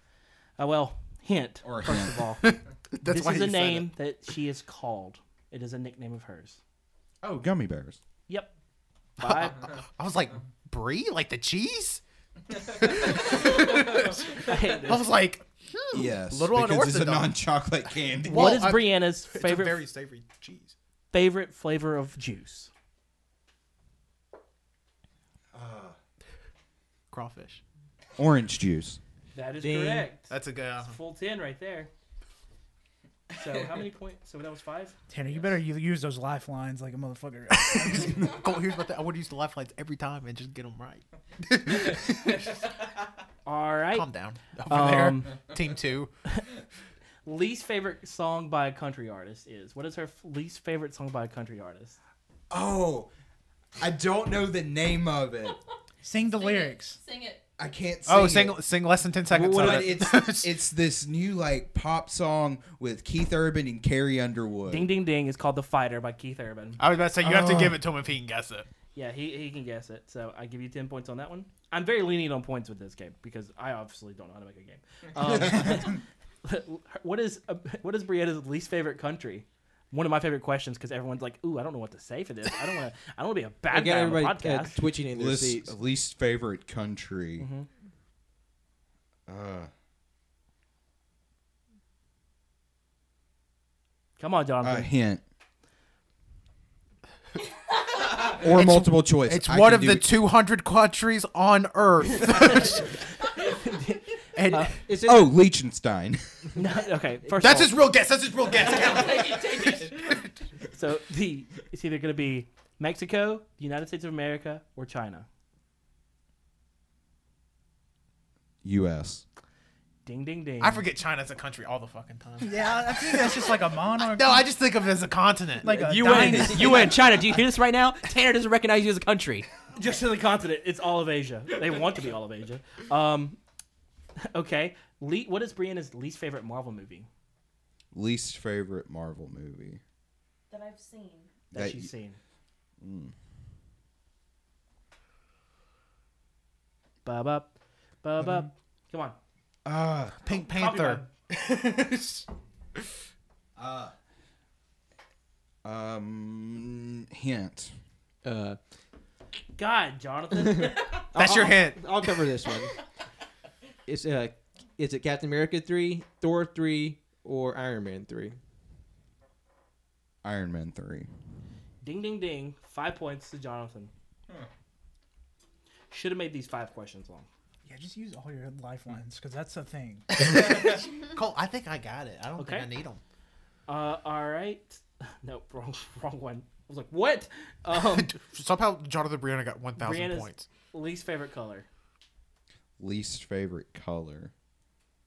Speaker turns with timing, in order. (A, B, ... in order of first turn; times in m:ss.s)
0:00.6-0:02.4 A
0:01.6-0:02.3 B
0:02.4-0:03.9 C
0:03.0-0:06.6 A
0:07.2-0:08.0 B
0:09.2-0:09.6 A
0:09.2-0:12.0 C
0:12.5-0:17.4 C
0:14.4-0:15.1 A
0:15.9-0:18.7 B
0:18.0-0:20.8 C
0:18.2-0:19.8 A
0:21.1-0:22.7 A
0:25.5-0:26.0 B
0:27.1-0:27.6 C
0:28.2-0:29.0 B
0:29.3-0:31.9 A
0:29.6-0:30.1 D
0:30.3-0:31.0 C
0:33.3-0:35.0 A
0:35.1-0:38.4 E
0:37.6-0:42.5 C
0:43.4-0:44.1 A
0:43.9-0:46.1 C
0:44.7-0:45.4 A
0:47.2-0:52.0 A
0:52.5-0:53.1 B
0:53.8-0:55.6 B
0:56.0-0:57.0 E
0:56.3-0:57.4 F
0:57.6-0:58.6 B
0:58.0-1:00.6 C
0:59.3-1:04.9 B
1:04.7-1:06.8 A
1:06.8-1:08.7 C
1:07.2-1:07.8 B
1:09.0-1:24.8 A
1:15.3-1:15.8 B
1:23.7-1:25.8 D
1:25.1-1:27.5 B
1:27.4-1:27.7 A
1:29.3-1:29.7 B
1:34.2-1:34.9 A
1:34.6-1:35.2 B
1:38.3-1:40.1 B
1:38.4-1:42.8 C
1:42.3-1:44.8 A
1:44.4-1:44.8 C
1:44.9-1:45.4 D
1:45.0-1:46.6 B
1:46.6-1:47.8 A
1:47.4-1:50.1 C
1:48.6-1:49.9 G
1:50.7-1:55.3 A
1:58.6-1:59.2 B
2:00.0-2:00.8 A
2:00.6-2:07.0 C
2:02.4-2:04.5 E
2:05.6-2:06.9 E
2:05.7-2:09.5 G
2:09.8-2:13.4 A
2:14.3-2:17.1 A
2:17.9-2:19.8 B
2:20.5-2:21.4 F
2:21.5-2:22.2 A
2:21.5-2:21.9 B
2:22.8-2:23.1 B
2:27.0-2:27.5 A
2:28.0-2:29.2 A
2:29.6-2:30.2 B
2:30.2-2:32.3 C
2:30.3-2:31.1 A
2:33.6-2:33.9 B
2:35.6-2:37.7 B
2:38.2-2:38.6 D
2:39.6-2:41.2 A
2:41.1-2:42.7 D
2:41.1-2:41.9 C
2:43.9-2:48.4 D
2:50.2-2:51.1 B
2:51.8-2:53.9 A
2:55.9-2:57.3 A
2:57.6-3:00.8 E
3:00.2-3:03.0 C
3:02.4-3:02.7 A
3:03.7-3:08.1 A
3:07.7-3:10.5 C
3:09.8-3:11.7 A
3:12.8-3:14.3 B